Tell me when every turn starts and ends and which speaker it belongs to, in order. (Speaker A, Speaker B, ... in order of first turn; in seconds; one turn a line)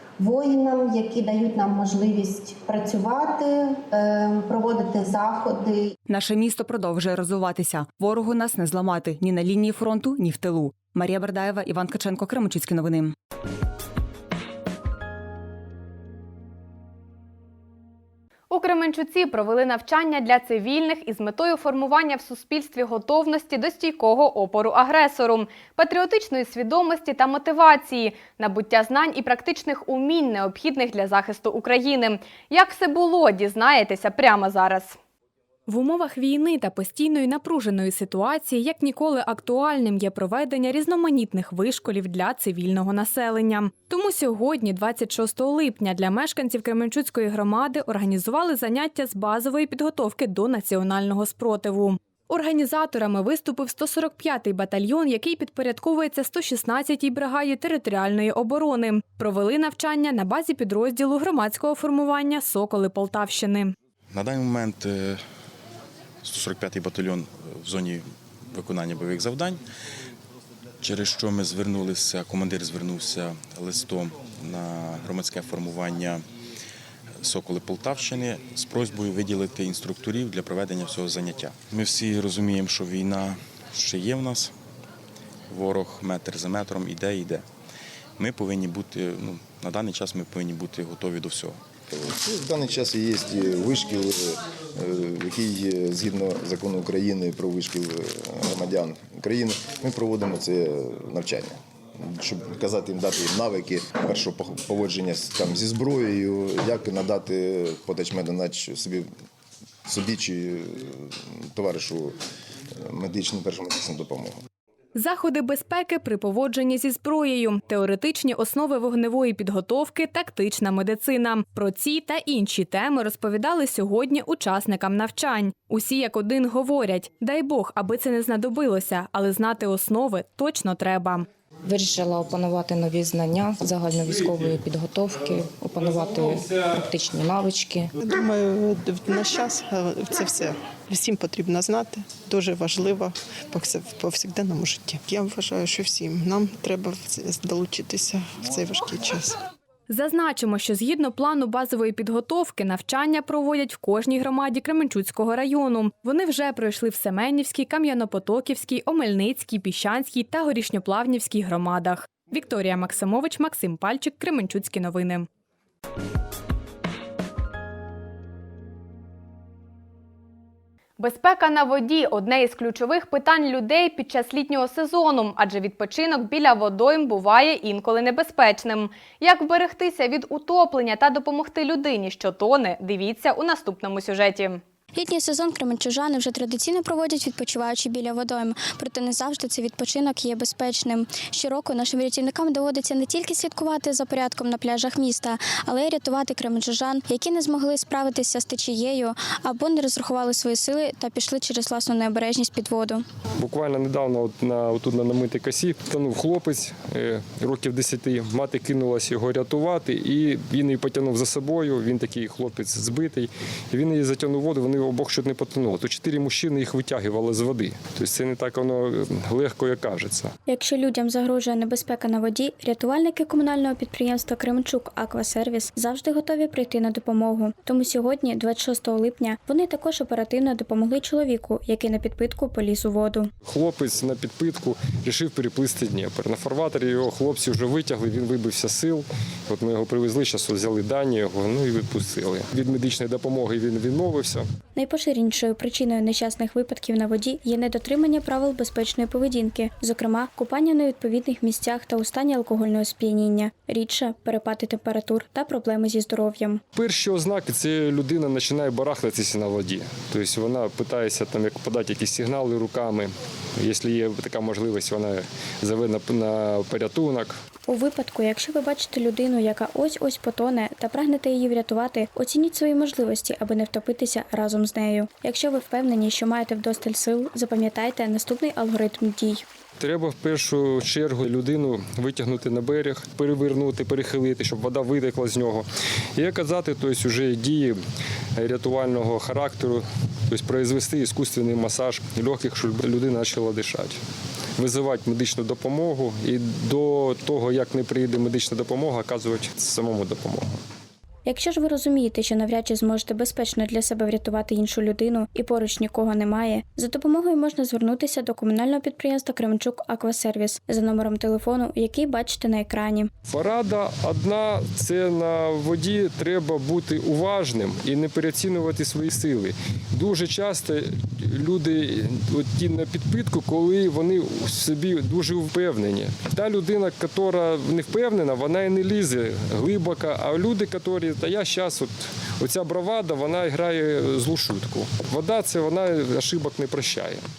Speaker A: 0.2-5.8
Speaker B: 6.2-13.1
Speaker C: 18.5-35.0
Speaker C: 35.7-63.7
Speaker D: 64.1-65.2
Speaker D: 66.2-69.6
Speaker D: 70.8-76.2
Speaker D: 77.2-84.5
Speaker D: 85.5-87.5
Speaker D: 88.2-91.6
Speaker E: 91.9-109.1
Speaker E: 109.9-112.2
Speaker E: 112.9-114.4
Speaker C: 115.0-131.3
Speaker F: 131.7-137.9
Speaker G: 134.1-134.6
Speaker G: 135.1-136.7
Speaker H: 138.1-149.3
Speaker C: 149.9-165.3
Speaker C: 171.0-184.6
Speaker I: 184.9-203.0
Speaker G: 203.4-220.3
Speaker I: 220.5-233.3
Speaker G: 233.4-244.4
Speaker I: 244.8-256.6
Speaker G: 256.7-267.4
Speaker I: 267.7-279.4
Speaker G: 279.8-287.8
Speaker G: 288.4-294.0
Speaker G: 294.6-300.5
Speaker I: 301.3-313.1
Speaker G: 313.2-337.2